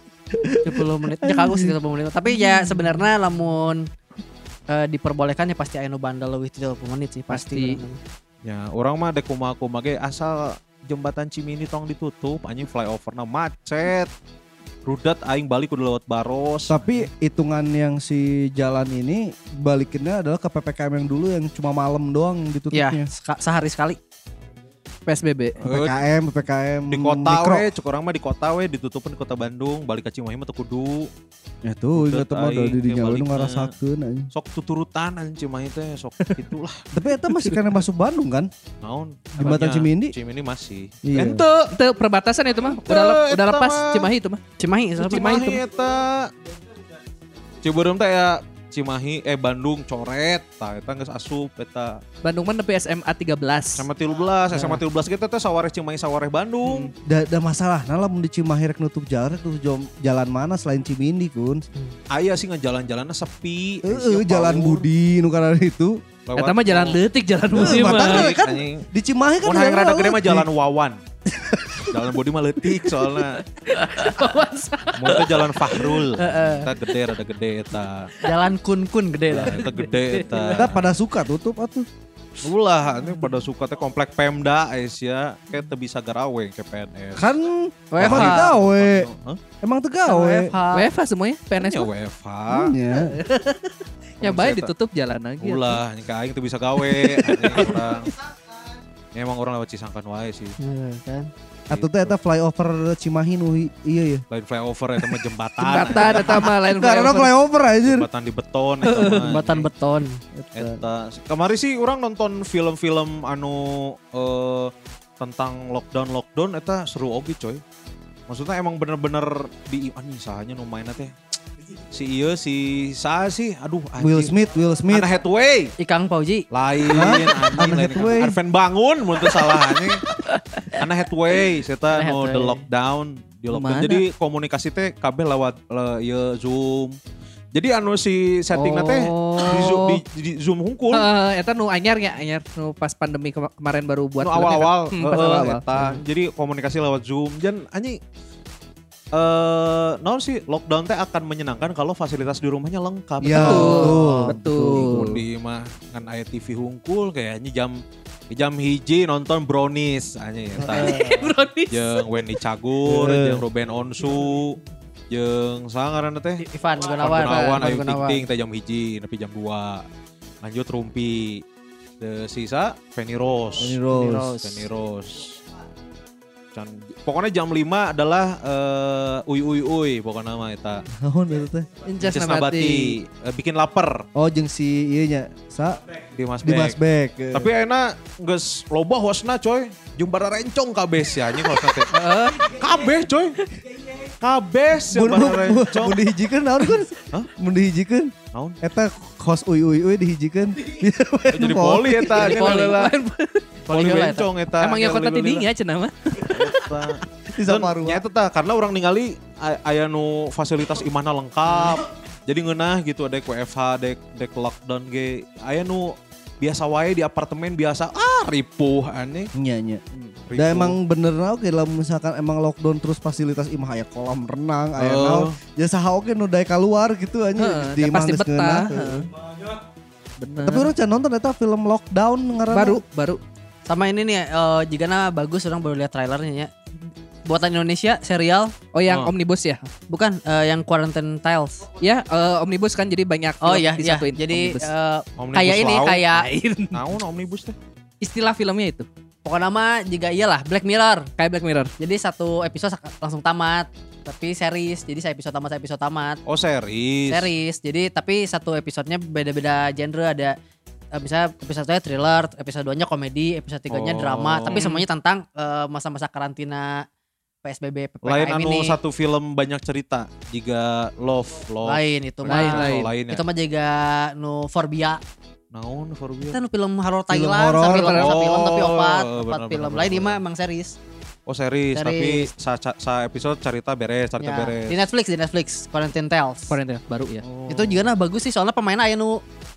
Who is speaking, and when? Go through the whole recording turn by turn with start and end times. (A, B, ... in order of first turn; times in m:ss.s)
0:00.3-0:01.7 A
0:00.6-0:03.9 B
0:02.5-0:02.9 C
0:04.7-0:08.0 B
0:07.3-0:07.8 C
0:08.4-0:14.1 D
0:14.8-0:16.8 D
0:16.7-0:23.1 A
0:22.7-0:24.0 B
0:25.1-0:25.6 C
0:25.6-0:27.7 A
0:25.6-0:26.0 D
0:26.9-0:31.1 D
0:31.6-0:34.3 A
0:31.9-0:33.7 D
0:34.3-0:36.8 D
0:36.9-0:38.5 A
0:37.3-0:37.6 C
0:38.8-0:41.7 D
0:39.4-0:40.1 A
0:41.0-0:41.4 A
0:41.7-0:44.4 C
0:42.7-0:44.1 D
0:44.6-0:45.6 B
0:45.0-0:46.3 D
0:47.6-0:52.0 D
0:52.2-0:53.9 C
0:53.8-0:56.9 D
0:56.6-0:56.9 C
0:57.0-1:01.6 A
1:02.1-1:04.8 D
1:03.8-1:06.0 A
1:06.3-1:07.0 D
1:06.4-1:08.3 C
1:07.5-1:08.8 D
1:07.5-1:10.5 A
1:09.4-1:11.0 D
1:11.4-1:11.9 A
1:11.8-1:13.4 D
1:13.6-1:16.0 C
1:14.9-1:18.1 D
1:16.2-1:16.7 B
1:18.2-1:19.6 B
1:19.3-1:20.8 D
1:19.4-1:20.6 C
1:20.5-1:21.9 A
1:22.4-1:27.3 D
1:27.2-1:29.1 A
1:27.9-1:28.5 B
1:28.0-1:29.4 D
1:29.6-1:30.5 A
1:30.0-1:30.9 B
1:30.7-1:31.9 C
1:31.6-1:32.7 D
1:32.5-1:33.2 A
1:32.9-1:35.8 C
1:34.2-1:34.7 D
1:35.4-1:38.1 D
1:36.8-1:37.8 C
1:39.1-1:40.6 D
1:40.6-1:41.3 B
1:41.7-1:44.2 A
1:41.7-1:42.1 D
1:44.3-1:46.5 D
1:45.6-1:47.3 C
1:45.9-1:48.1 A
1:47.8-1:49.7 D
1:48.8-1:49.4 C
1:49.2-1:50.2 B
1:50.4-1:50.8 A
1:50.5-1:57.6 D
1:58.3-2:01.1 D
2:01.9-2:04.3 D
2:04.0-2:05.1 A
2:04.9-2:05.7 D
2:05.8-2:06.4 B
2:06.5-2:10.0 D
2:06.8-2:08.4 A
2:10.2-2:10.8 B
2:10.8-2:17.0 D
2:11.9-2:12.6 B
2:13.5-2:14.0 C
2:17.5-2:21.1 D
2:18.6-2:19.9 C
2:20.9-2:26.0 C
2:24.2-2:28.0 D
2:29.1-2:34.0 D
2:33.2-2:35.2 A
2:33.4-2:35.2 C
2:33.7-2:34.3 B
2:34.7-2:41.0 D
2:40.6-2:41.3 A
2:40.6-2:42.0 C
2:41.7-2:44.6 D
2:42.8-2:43.4 A
2:45.1-2:49.8 D
2:46.4-2:48.2 B
2:50.4-2:51.4 D
2:52.0-2:55.4 D
2:53.6-2:54.4 A
2:53.9-2:54.7 B
2:56.5-3:00.8 D
3:00.9-3:01.7 A
3:01.8-3:03.0 C
3:02.0-3:04.0 D
3:04.1-3:05.8 A
3:06.1-3:06.8 D
3:06.4-3:07.5 A
3:07.3-3:11.9 D
3:11.9-3:12.5 C
3:12.4-3:13.4 D
3:14.2-3:16.0 D
3:14.9-3:22.1 A
3:18.3-3:18.6 D
3:21.3-3:22.9 D
3:22.1-3:22.8 B
3:22.1-3:23.4 C
3:23.6-3:24.3 B
3:23.7-3:25.5 D
3:24.6-3:26.6 C
3:26.3-3:39.3 D
3:27.3-3:28.0 A
3:39.3-3:39.8 A
3:39.9-3:40.8 D
3:40.3-3:49.0 A
3:44.8-3:45.4 D
3:47.4-3:49.1 C
3:50.2-3:50.7 C
3:50.4-3:52.8 A
3:52.5-3:53.2 C
3:53.7-3:56.5 B
3:57.2-3:58.5 B
3:58.7-3:59.6 C
3:58.8-3:59.1 D
3:59.9-4:01.6 B
4:01.8-4:04.7 C
4:03.4-4:06.3 B
4:05.2-4:06.1 D
4:06.1-4:06.8 C
4:06.7-4:07.6 D
4:08.0-4:08.9 C
4:09.2-4:11.1 B
4:11.2-4:11.7 C
4:11.8-4:16.2 B
4:16.2-4:17.3 D
4:17.1-4:20.3 B
4:20.9-4:26.8 B
4:23.7-4:24.6 D
4:24.5-4:24.8 C
4:27.4-4:28.8 B
4:28.0-4:33.2 D
4:31.6-4:35.0 B
4:32.3-4:32.9 C
4:35.5-4:36.4 D
4:36.3-4:40.8 B
4:37.1-4:38.0 A
4:37.7-4:38.1 C
4:37.9-4:40.2 D
4:41.3-4:44.8 D
4:41.7-4:42.3 B
4:44.2-4:46.6 B
4:46.5-4:47.2 C
4:47.2-4:47.9 D
4:47.5-4:49.2 B